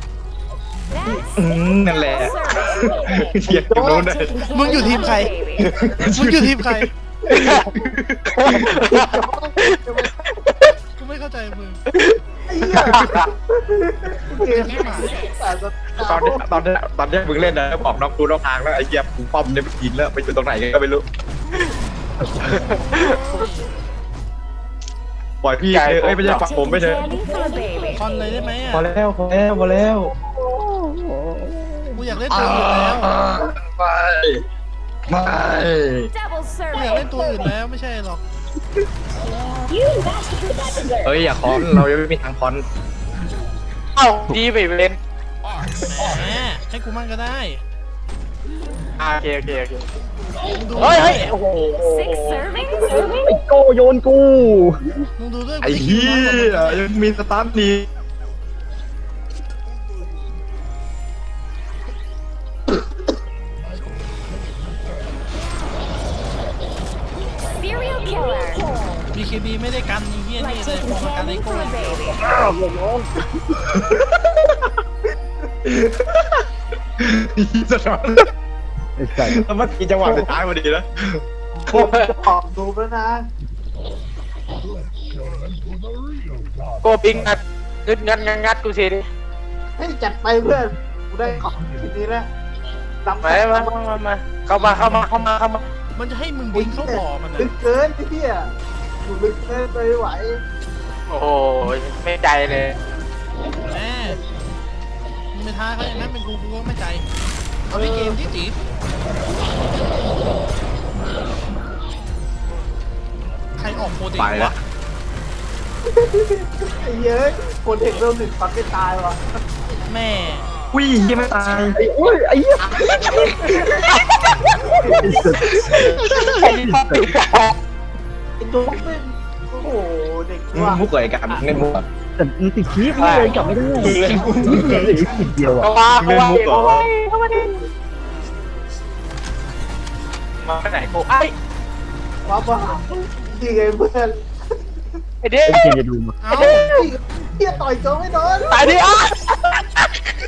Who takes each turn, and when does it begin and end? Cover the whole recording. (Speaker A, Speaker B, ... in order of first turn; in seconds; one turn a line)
Speaker A: 0.9-5.8
Speaker B: 1.3-4.3
Speaker C: 3.4-4.1
Speaker D: 4.5-5.3
Speaker B: 5.6-8.8
Speaker D: 5.9-6.9
Speaker E: 7.3-7.7
Speaker C: 7.5-7.9
Speaker E: 8.3-10.7
Speaker C: 8.6-10.1
Speaker D: 11.0-11.8
Speaker C: 12.5-16.5
Speaker B: 12.7-13.1
Speaker E: 12.9-13.3
Speaker D: 14.4-15.1
Speaker A: 14.5-15.4
Speaker B: 16.0-21.0
Speaker D: 22.4-23.7
Speaker E: 22.4-23.2
Speaker B: 25.4-27.1
Speaker E: 25.7-26.4
Speaker A: 26.2-28.4
Speaker D: 27.9-28.8
Speaker B: 28.7-30.1
Speaker F: 30.2-32.1
Speaker D: 31.9-33.1
Speaker B: 32.3-34.4
Speaker B: 35.1-36.1
Speaker A: 36.1-37.5
Speaker D: 36.7-38.2
Speaker A: 39.4-41.2
Speaker B: 41.0-42.6
Speaker E: 44.0-45.0
Speaker D: 45.8-47.6
Speaker E: 49.0-49.9
Speaker D: 50.5-51.4
Speaker E: 50.8-53.1
Speaker A: 51.8-53.4
Speaker F: 53.2-55.0
Speaker D: 55.2-56.9
Speaker B: 55.6-57.9
Speaker A: 67.5-68.7
Speaker D: 69.1-71.8
Speaker A: 70.4-72.3
Speaker F: 72.2-73.3
Speaker B: 73.7-74.5
Speaker B: 75.6-76.4
Speaker B: 77.0-78.3
Speaker F: 79.0-79.4
Speaker B: 79.2-81.2
Speaker C: 80.0-80.3
Speaker C: 81.7-83.3
Speaker E: 81.7-82.1
Speaker E: 86.8-89.1
Speaker C: 89.8-92.3
Speaker C: 93.0-93.7
Speaker E: 93.2-95.6
Speaker D: 96.0-97.5
Speaker C: 96.5-98.5
Speaker C: 99.0-100.4
Speaker E: 101.1-102.8
Speaker D: 103.6-104.2
Speaker D: 105.3-107.0
Speaker C: 107.7-108.2
Speaker D: 107.7-108.5
Speaker D: 113.6-114.5
Speaker B: 114.2-114.6
Speaker C: 115.9-119.2
Speaker D: 119.9-120.5
Speaker B: 120.7-121.8
Speaker F: 121.7-123.3
Speaker B: 122.6-124.1
Speaker C: 123.4-123.8
Speaker E: 123.9-124.2
Speaker C: 124.8-125.3
Speaker F: 124.9-127.1
Speaker B: 125.6-126.3
Speaker E: 126.2-127.5
Speaker C: 128.4-130.8
Speaker B: 130.5-131.8
Speaker F: 132.2-135.7
Speaker E: 133.0-133.5
Speaker B: 133.8-135.0
Speaker E: 135.6-137.6
Speaker B: 136.0-136.9
Speaker E: 140.4-141.3
Speaker C: 142.2-144.2
Speaker E: 145.2-145.7
Speaker F: 145.5-146.2
Speaker D: 146.2-146.7
Speaker E: 146.3-146.9
Speaker C: 146.7-148.8
Speaker E: 148.5-150.0